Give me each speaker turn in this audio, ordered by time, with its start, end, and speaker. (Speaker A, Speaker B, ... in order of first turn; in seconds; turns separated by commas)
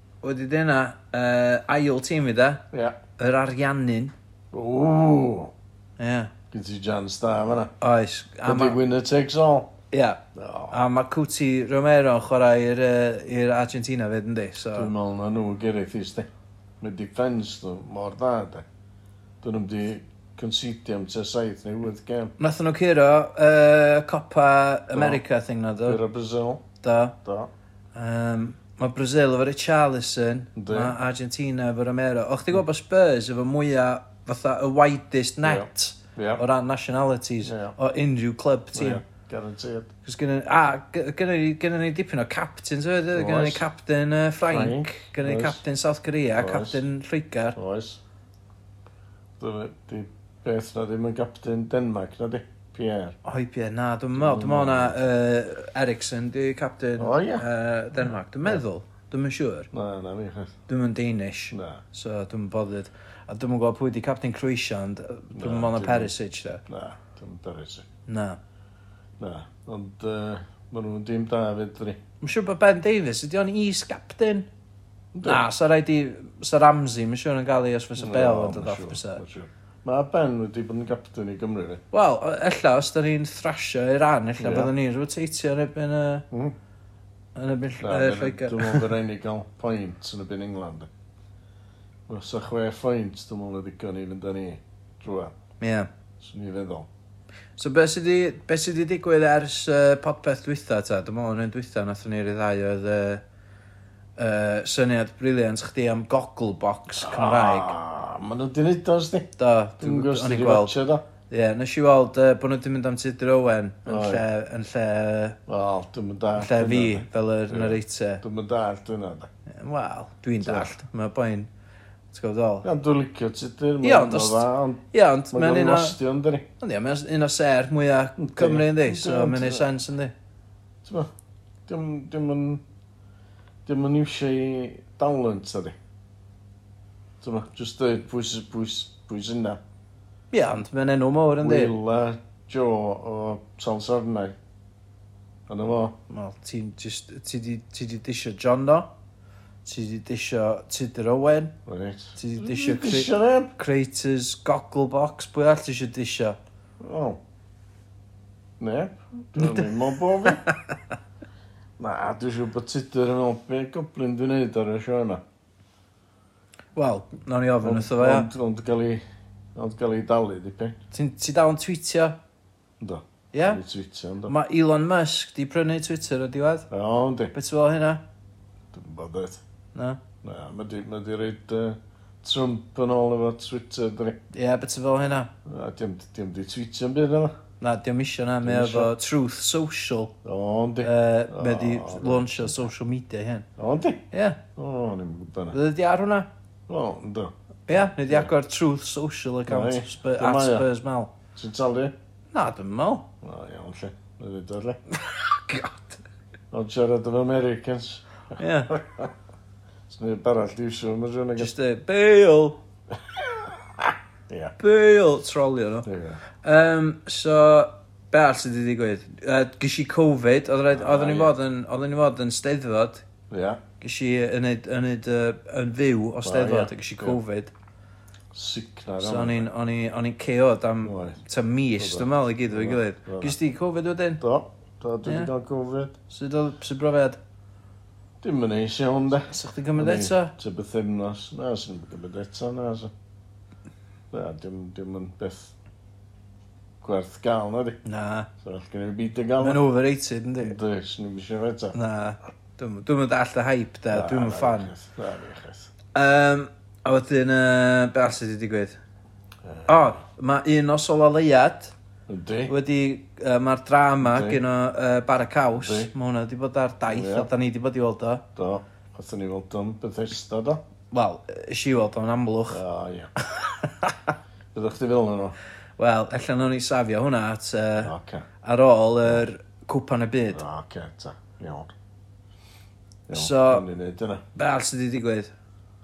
Speaker A: 0.2-2.6, Speaker B: 2.7-3.0, Speaker A: 3.2-4.1, Speaker B: 4.5-5.5, Speaker A: 6.0-6.3, Speaker B: 6.5-7.7, Speaker A: 7.8-8.8, Speaker B: 8.4-9.7, Speaker A: 9.9-10.2, Speaker B: 10.3-10.8, Speaker A: 10.7-14.9, Speaker B: 14.7-16.3, Speaker B: 16.8-18.6, Speaker B: 19.4-22.3, Speaker A: 22.4-26.0, Speaker B: 24.9-25.2, Speaker B: 25.8-26.6, Speaker A: 26.8-27.1, Speaker B: 27.2-27.5, Speaker A: 27.9-39.0, Speaker B: 30.6-30.9, Speaker B: 35.4-36.4, Speaker B: 37.4-37.8, Speaker B: 38.7-39.9, Speaker A: 40.0-47.6, Speaker B: 43.1-43.7, Speaker B: 44.4-45.6, Speaker B: 46.3-46.8, Speaker B: 47.5-48.0, Speaker B: 49.4-53.2, Speaker A: 53.2-59.7, Speaker B: 54.1-55.0, Speaker B: 57.0-57.4, Speaker B: 59.7-60.6, Speaker A: 60.7-66.6, Speaker B: 61.5-61.8, Speaker B: 65.3-66.1, Speaker B: 66.7-67.9, Speaker A: 68.1-68.4, Speaker B: 69.2-72.0, Speaker A: 72.2-74.5, Speaker B: 75.1-75.5, Speaker A: 75.2-79.2, Speaker B: 78.0-81.8, Speaker A: 81.9-86.2, Speaker B: 84.4-84.7, Speaker A: 87.3-88.9, Speaker B: 87.8-90.9, Speaker B: 92.1-95.3, Speaker A: 95.6-95.9, Speaker B: 96.2-96.9, Speaker A: 97.6-103.2, Speaker A: 104.2-107.7, Speaker B: 107.0-111.0, Speaker A: 109.4-110.8, Speaker A: 111.3-115.4, Speaker B: 113.8-114.2, Speaker B: 115.5-119.3, Speaker A: 116.3-118.2, Speaker A: 119.5-121.5, Speaker B: 120.4-120.7, Speaker A: 122.1-122.7, Speaker B: 122.6-126.5, Speaker A: 123.8-126.0, Speaker A: 126.6-130.1, Speaker B: 128.2-129.7, Speaker B: 130.8-131.1, Speaker B: 131.7-132.6, Speaker B: 133.7-135.8, Speaker B: 137.2-139.6, Speaker A: 140.3-141.8, Speaker B: 141.4-144.4, Speaker B: 145.5-146.0, Speaker A: 146.1-148.9, Speaker A: 149.6-151.5, Speaker B: 151.7-153.5, Speaker A: 152.2-156.4, Speaker B: 156.8-157.2, Speaker B: 158.6-160.4, Speaker A: 159.4-160.5, Speaker B: 161.8-165.2, Speaker A: 166.8-168.3, Speaker B: 167.6-170.8, Speaker A: 170.9-172.2, Speaker B: 172.8-174.3, Speaker A: 173.3-173.6, Speaker A: 174.2-176.7, Speaker B: 176.7-177.3, Speaker A: 177.3-178.0, Speaker B: 178.7-179.4, Speaker A: 179.7-180.0, Speaker B: 180.2-184.2, Speaker A: 184.3-185.3, Speaker B: 185.4-187.3, Speaker A: 187.6-190.1, Speaker B: 188.4-188.9, Speaker B: 190.2-192.7, Speaker A: 190.8-193.5, Speaker B: 193.6-195.6, Speaker A: 194.1-194.4, Speaker A: 195.5-196.3, Speaker B: 196.7-198.3, Speaker A: 197.7-201.1, Speaker B: 199.5-200.7, Speaker B: 201.3-201.9, Speaker A: 202.3-203.1, Speaker B: 203.2-204.8, Speaker A: 204.9-206.0, Speaker B: 206.5-209.1, Speaker A: 208.4-208.7, Speaker B: 209.9-211.5, Speaker A: 211.4-212.6, Speaker B: 213.1-214.6, Speaker A: 214.6-215.9, Speaker B: 215.8-216.2, Speaker A: 216.4-223.0, Speaker B: 220.7-221.3, Speaker B: 223.3-223.6, Speaker A: 223.8-227.5, Speaker B: 226.2-227.2, Speaker B: 228.3-229.5, Speaker A: 229.0-234.2, Speaker B: 230.8-231.2, Speaker B: 231.8-233.4, Speaker B: 234.2-236.0, Speaker A: 236.1-237.2, Speaker B: 238.2-242.9, Speaker A: 239.3-240.3, Speaker B: 244.1-245.5, Speaker B: 246.8-247.8, Speaker A: 247.8-248.3, Speaker B: 248.4-249.6, Speaker A: 249.4-250.6, Speaker B: 250.4-251.8, Speaker A: 251.7-254.7, Speaker B: 253.9-255.7, Speaker A: 255.9-258.8, Speaker B: 259.4-260.0, Speaker A: 259.7-261.7, Speaker B: 262.1-262.5, Speaker A: 262.5-268.2, Speaker B: 264.0-264.4, Speaker B: 265.5-265.9, Speaker B: 266.9-267.3, Speaker B: 268.4-270.6, Speaker A: 270.9-272.6, Speaker B: 272.5-273.1, Speaker A: 273.4-273.9, Speaker B: 274.5-275.4, Speaker A: 275.8-280.4, Speaker B: 277.8-278.2, Speaker B: 280.3-281.7, Speaker B: 283.1-284.2, Speaker A: 283.1-283.6, Speaker A: 284.3-285.3